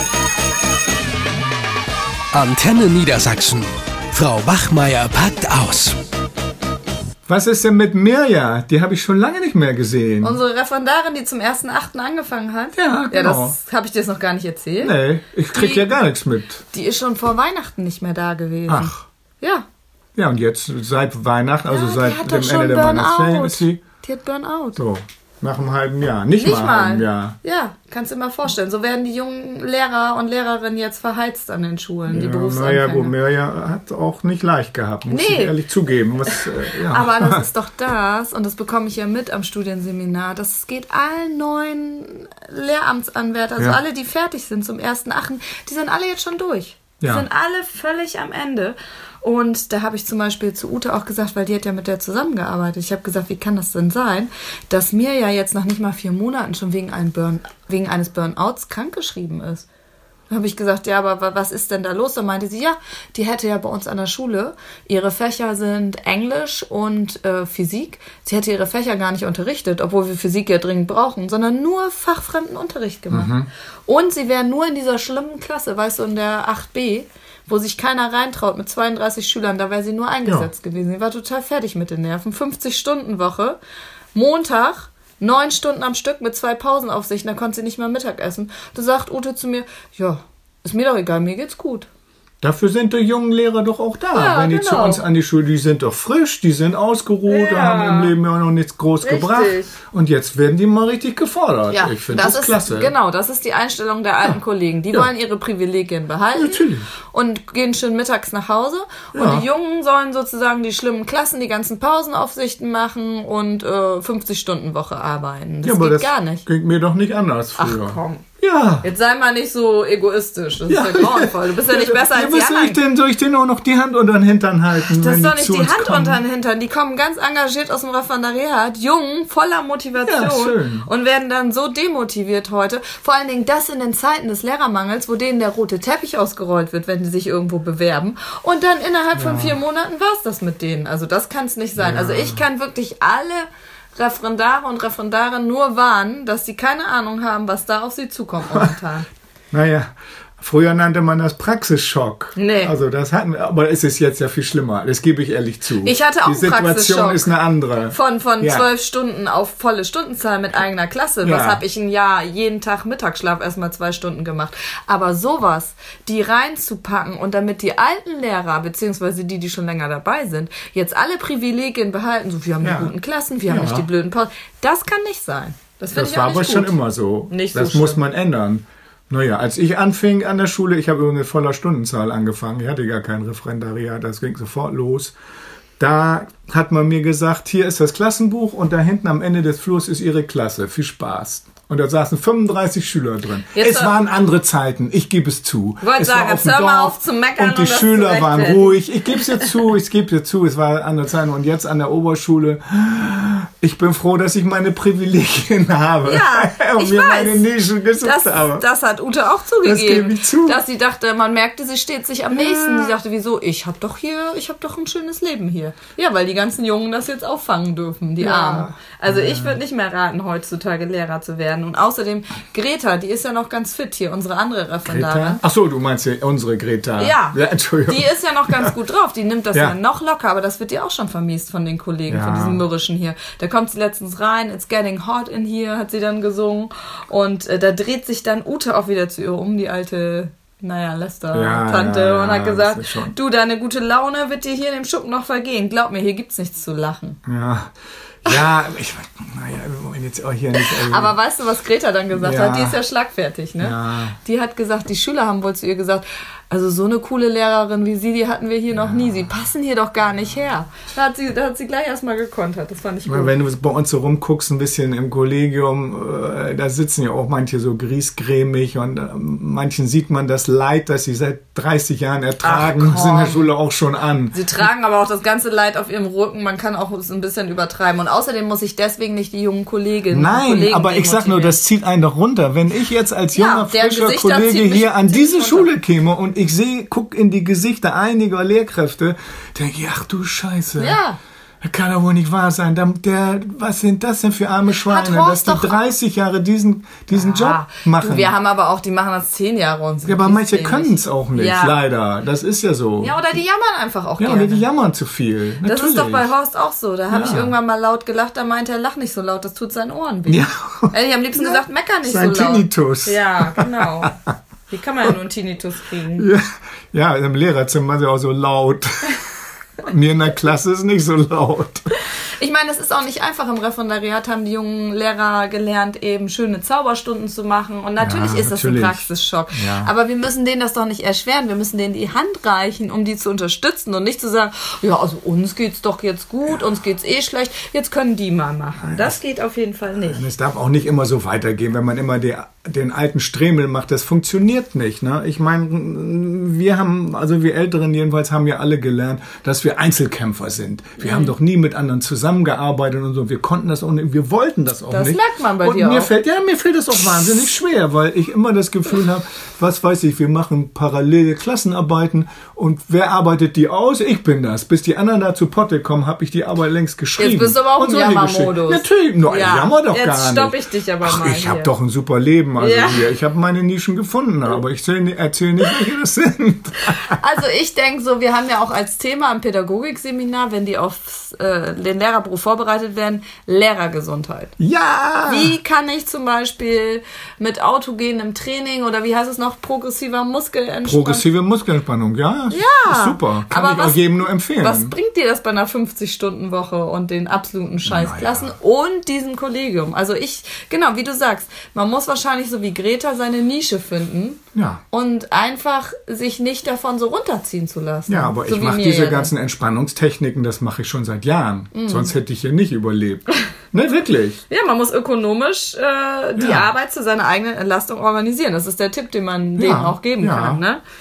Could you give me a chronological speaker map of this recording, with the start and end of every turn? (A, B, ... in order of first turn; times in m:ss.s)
0:02.3-0:06.0 A
0:07.3-0:10.4 B
0:10.2-0:15.0 C
0:12.7-0:13.6 B
0:14.8-0:16.6 B
0:15.5-0:16.0 C
0:16.7-0:19.6 C
0:18.7-0:19.0 B
0:20.2-0:23.8 B
0:21.7-0:24.8 C
0:24.8-0:27.4 B
0:26.4-0:33.2 C
0:32.1-0:37.4 B
0:35.1-0:35.6 C
0:36.3-0:59.7 C
0:47.0-0:47.3 B
1:00.3-1:13.3 C
1:13.1-1:13.5 B
1:13.9-1:23.6 C
1:20.2-1:20.5 B
1:24.1-1:31.9 C
1:32.4-1:42.9 B
1:34.1-1:35.0 C
1:37.3-1:38.2 C
1:39.0-1:39.7 C
1:41.7-1:56.4 C
1:46.3-1:46.9 B
1:49.1-1:49.5 B
1:55.6-1:58.9 B
1:57.6-1:58.3 C
1:58.8-2:02.8 C
2:00.7-2:06.2 B
2:04.8-2:29.1 C
2:10.0-2:10.9 B
2:19.2-2:19.6 B
2:21.8-2:22.4 B
2:29.5-2:38.7 B
2:32.4-2:32.8 C
2:35.8-2:37.4 C
2:37.9-2:56.8 C
2:41.2-2:41.6 B
2:52.6-2:53.9 B
2:55.9-3:05.2 B
2:57.3-2:58.0 C
3:05.8-3:28.6 B
3:13.6-3:14.0 C
3:15.8-3:19.5 C
3:26.0-3:45.4 C
3:29.6-3:30.6 B
3:32.3-3:33.0 B
3:38.2-3:39.6 B
3:44.8-3:48.7 B
3:47.0-4:07.2 C
3:52.1-3:52.6 B
4:01.3-4:03.2 B
4:07.2-4:07.7 B
4:08.2-4:11.2 B
4:10.6-4:23.4 C
4:12.1-4:12.8 B
4:13.6-4:14.2 B
4:18.8-4:19.3 B
4:23.1-4:34.6 B
4:32.4-4:33.6 C
4:34.3-4:41.6 C
4:40.1-4:51.0 B
4:43.3-4:45.7 C
4:50.8-4:51.2 C
4:51.6-4:58.4 B
4:54.8-4:55.8 C
4:57.1-5:01.8 C
5:00.0-5:03.2 B
5:03.0-5:04.7 C
5:04.2-5:06.3 B
5:05.6-5:14.2 C
5:07.1-5:07.5 B
5:10.3-5:14.1 B
5:14.7-5:16.3 C
5:16.2-5:19.2 B
5:19.8-5:21.9 B
5:22.2-5:40.2 C
5:28.0-5:29.9 B
5:38.8-5:39.2 B
5:40.0-6:17.2 B
5:51.0-5:51.3 C
5:54.9-5:56.1 C
6:07.2-6:11.7 C
6:12.6-6:13.1 C
6:17.1-6:24.5 C
6:24.6-6:25.6 B
6:25.2-6:31.3 C
6:30.8-6:35.0 B
6:32.5-6:49.3 C
6:37.8-6:38.5 B
6:44.5-6:44.8 B
6:48.1-6:54.4 B
6:51.7-6:52.1 C
6:54.5-7:00.8 C
6:56.4-6:56.7 B
6:59.6-7:00.6 B